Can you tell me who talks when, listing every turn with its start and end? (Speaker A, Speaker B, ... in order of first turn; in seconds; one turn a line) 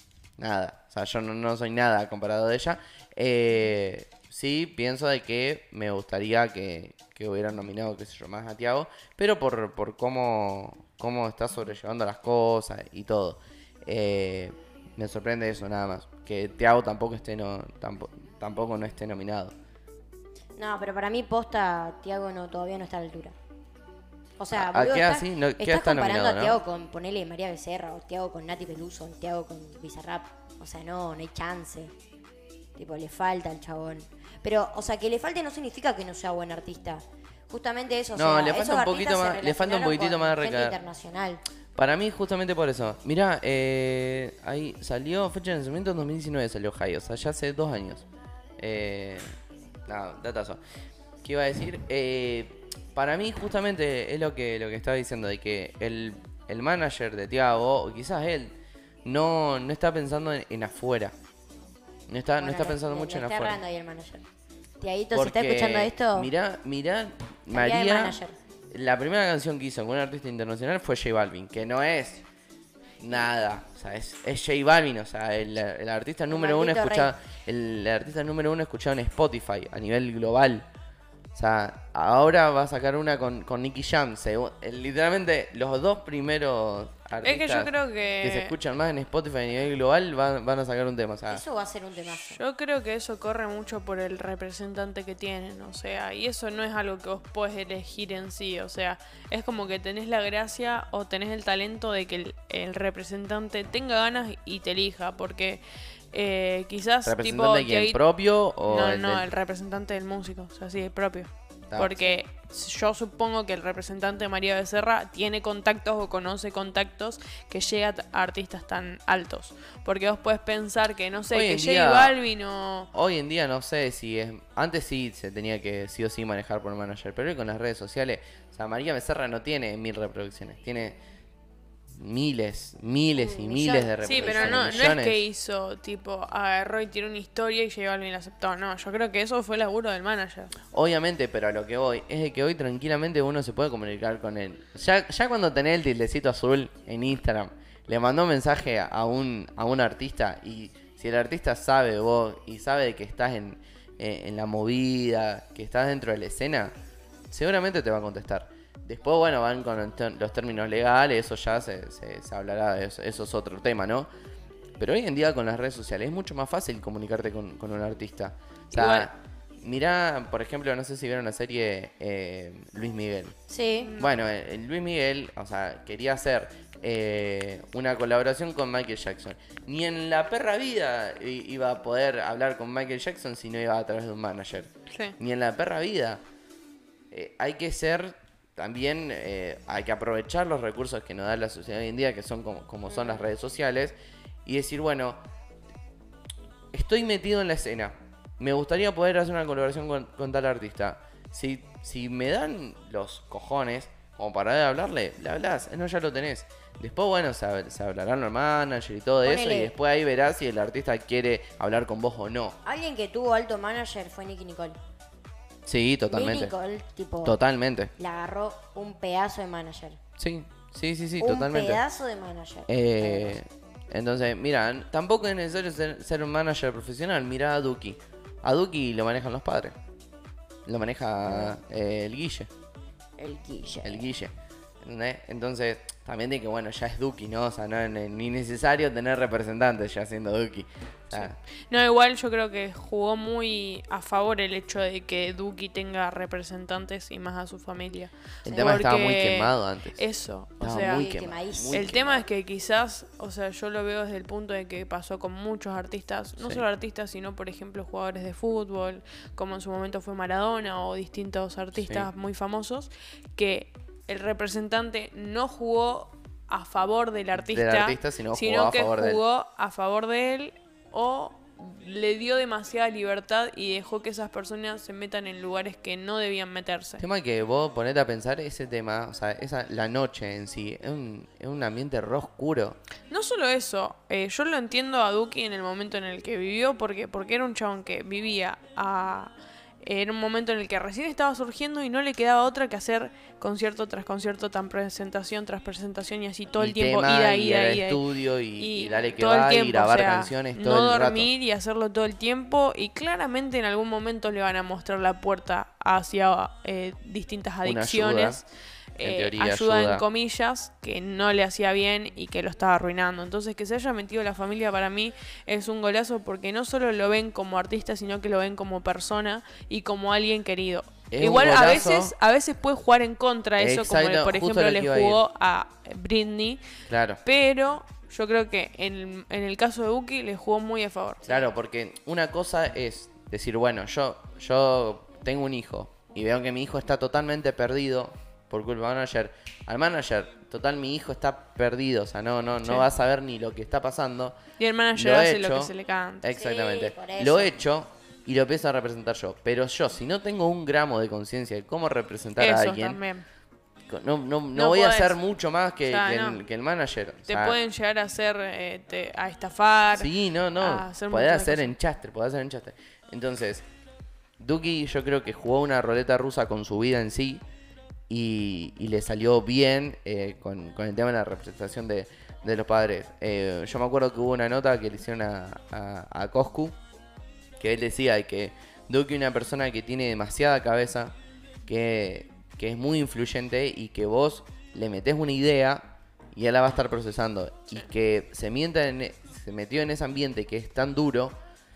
Speaker A: 0.4-19.5
Speaker B: 20.6-23.4
Speaker B: 24.4-31.9
Speaker A: 24.5-26.6
Speaker B: 32.8-41.4
Speaker A: 38.2-40.8
Speaker A: 41.8-48.1
Speaker A: 48.6-49.3
Speaker A: 49.9-50.6
Speaker A: 51.2-61.1
Speaker A: 62.1-63.6
Speaker B: 62.4-64.2
Speaker B: 64.8-66.3
Speaker A: 65.1-68.2
Speaker B: 67.5-68.4
Speaker A: 68.7-72.2
Speaker A: 73.0-80.7
Speaker B: 76.3-77.1
Speaker A: 81.3-91.4
Speaker C: 87.2-88.5
Speaker B: 91.3-92.4
Speaker C: 92.1-108.0
Speaker A: 107.0-109.3
Speaker C: 108.7-122.9
Speaker A: 111.7-112.1
Speaker A: 121.3-122.2
Speaker A: 122.9-131.0
Speaker A: 132.0-135.2
Speaker B: 133.2-134.9
Speaker C: 134.0-140.5
Speaker A: 140.7-156.7
Speaker A: 157.3-164.1
Speaker A: 164.8-173.3
Speaker C: 168.7-169.1
Speaker B: 173.5-173.9
Speaker A: 174.0-186.2
Speaker C: 184.9-185.2
Speaker A: 187.1-193.9
Speaker C: 192.9-193.2
Speaker A: 194.4-195.2
Speaker A: 196.7-212.6
Speaker B: 209.2-209.7
Speaker B: 212.6-214.8
Speaker A: 215.7-216.5
Speaker B: 216.1-217.4
Speaker A: 217.2-217.9
Speaker B: 218.0-220.0
Speaker A: 220.2-221.8
Speaker B: 221.2-223.4
Speaker A: 222.7-229.8
Speaker A: 230.7-232.5
Speaker B: 231.3-231.6
Speaker B: 233.2-234.1
Speaker A: 233.8-241.4
Speaker C: 241.1-251.1
Speaker A: 248.4-250.0
Speaker B: 248.5-248.7
Speaker A: 250.6-252.0
Speaker B: 250.7-252.3
Speaker C: 251.7-277.0
Speaker A: 256.4-256.6
Speaker A: 261.8-262.1
Speaker A: 267.4-269.2
Speaker A: 277.0-282.8
Speaker C: 283.1-298.0
Speaker A: 296.5-301.3
Speaker C: 298.6-308.5
Speaker A: 307.6-308.4
Speaker C: 309.0-326.6
Speaker A: 309.0-310.1
Speaker A: 321.1-322.1
Speaker A: 323.6-325.2
Speaker A: 326.9-327.2
Speaker C: 327.2-331.2
Speaker A: 331.2-344.4
Speaker C: 344.6-346.3
Speaker A: 344.9-353.0
Speaker B: 346.3-347.6
Speaker C: 352.4-353.2
Speaker A: 353.9-357.6
Speaker C: 354.5-355.2
Speaker C: 355.9-356.4
Speaker C: 357.3-361.8
Speaker A: 359.9-363.6
Speaker A: 364.4-367.4
Speaker A: 368.1-376.8
Speaker A: 377.6-381.1
Speaker A: 381.7-391.4